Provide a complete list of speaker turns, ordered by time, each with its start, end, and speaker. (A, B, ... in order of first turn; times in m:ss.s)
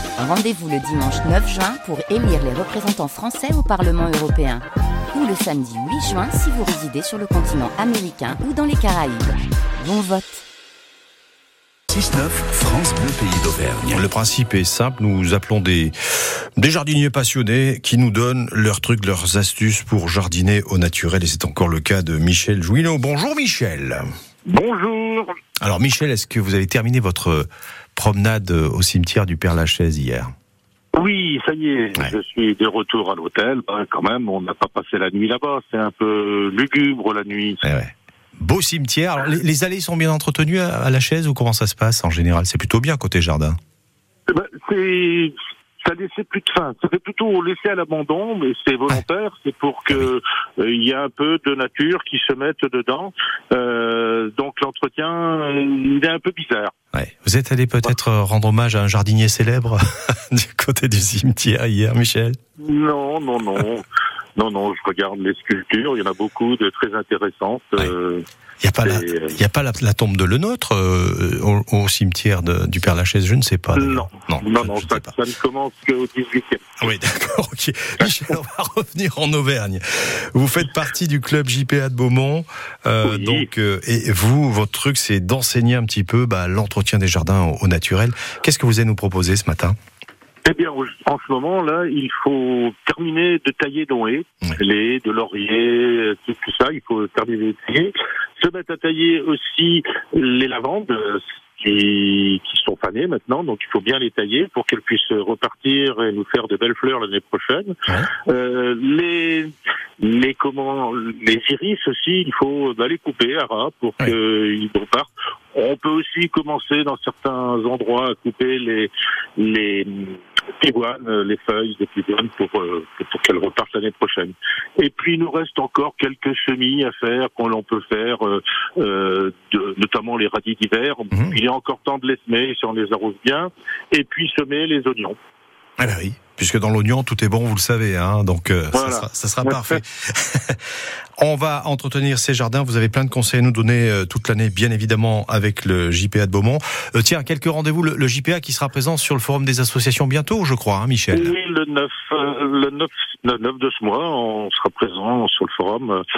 0:00.2-0:10.4 A
0:11.9-0:14.0 B
0:13.9-0:15.9 C
0:16.6-0:24.0 C
0:24.5-0:25.3 D
0:25.6-0:30.3 C
0:30.9-0:37.6 D
0:37.6-0:43.6 C
0:44.3-0:56.7 D
0:56.9-1:02.4 C
1:02.6-1:03.8 D
1:04.4-1:08.2 D
1:08.6-1:15.1 C
1:08.8-1:09.4 D
1:13.8-1:16.9 D
1:16.8-1:29.7 C
1:23.0-1:23.5 D
1:30.4-1:47.7 D
1:48.3-2:15.2 D
2:11.1-2:11.4 C
2:15.8-2:31.3 C
2:18.7-2:19.8 D
2:31.1-2:36.0 D